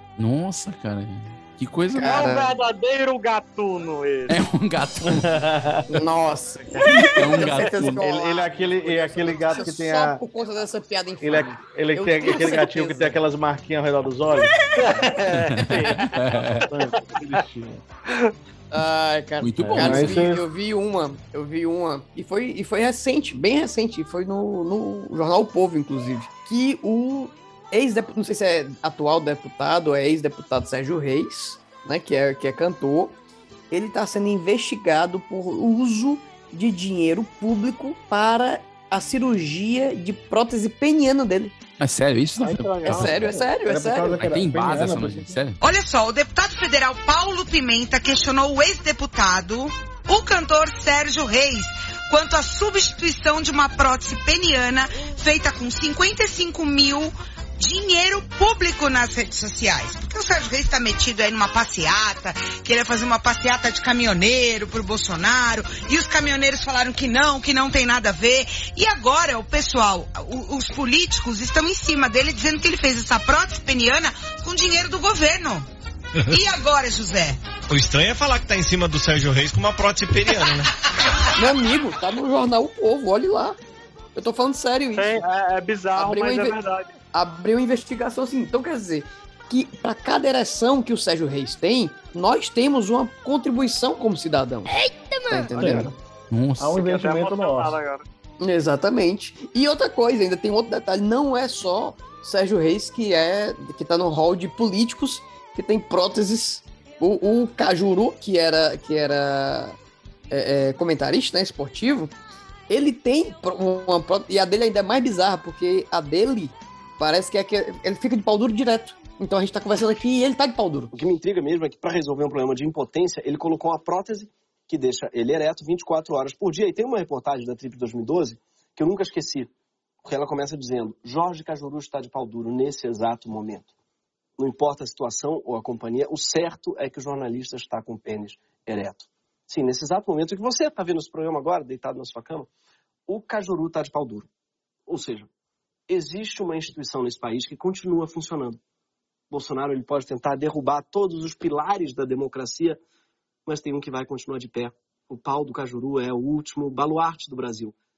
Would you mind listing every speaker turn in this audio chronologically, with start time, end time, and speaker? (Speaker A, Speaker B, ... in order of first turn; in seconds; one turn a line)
Speaker A: 0.2-2.3
Speaker B: 2.0-2.5
Speaker C: 2.0-4.3
Speaker A: 4.3-5.3
Speaker D: 5.1-5.9
Speaker B: 5.9-13.2
Speaker A: 6.8-8.0
Speaker D: 8.0-10.2
Speaker D: 11.2-14.6
Speaker C: 14.8-16.0
Speaker A: 15.3-16.7
Speaker D: 16.7-17.8
Speaker B: 18.7-33.2
Speaker A: 19.4-20.2
Speaker D: 19.6-20.4
Speaker B: 33.7-41.5
Speaker A: 41.8-43.3
Speaker D: 42.4-45.4
Speaker B: 42.9-44.2
Speaker A: 44.2-45.6
Speaker E: 45.6-75.7
Speaker E: 76.3-77.4
Speaker F: 77.7-80.7
Speaker B: 81.4-83.6
Speaker B: 84.2-85.2
Speaker C: 85.0-86.9
Speaker B: 86.0-86.6
Speaker B: 87.1-94.7
Speaker B: 95.3-95.9
Speaker D: 95.5-96.0
Speaker A: 96.3-96.8
Speaker D: 96.6-97.8
Speaker C: 96.8-98.0
Speaker B: 98.4-109.8
Speaker B: 110.3-112.1
Speaker B: 112.7-120.9
Speaker G: 120.9-129.5
Speaker G: 130.0-133.7
Speaker G: 134.4-142.5
Speaker G: 143.1-144.3
Speaker G: 144.9-145.3
Speaker G: 145.9-148.6
Speaker G: 149.3-152.8
Speaker G: 153.5-157.8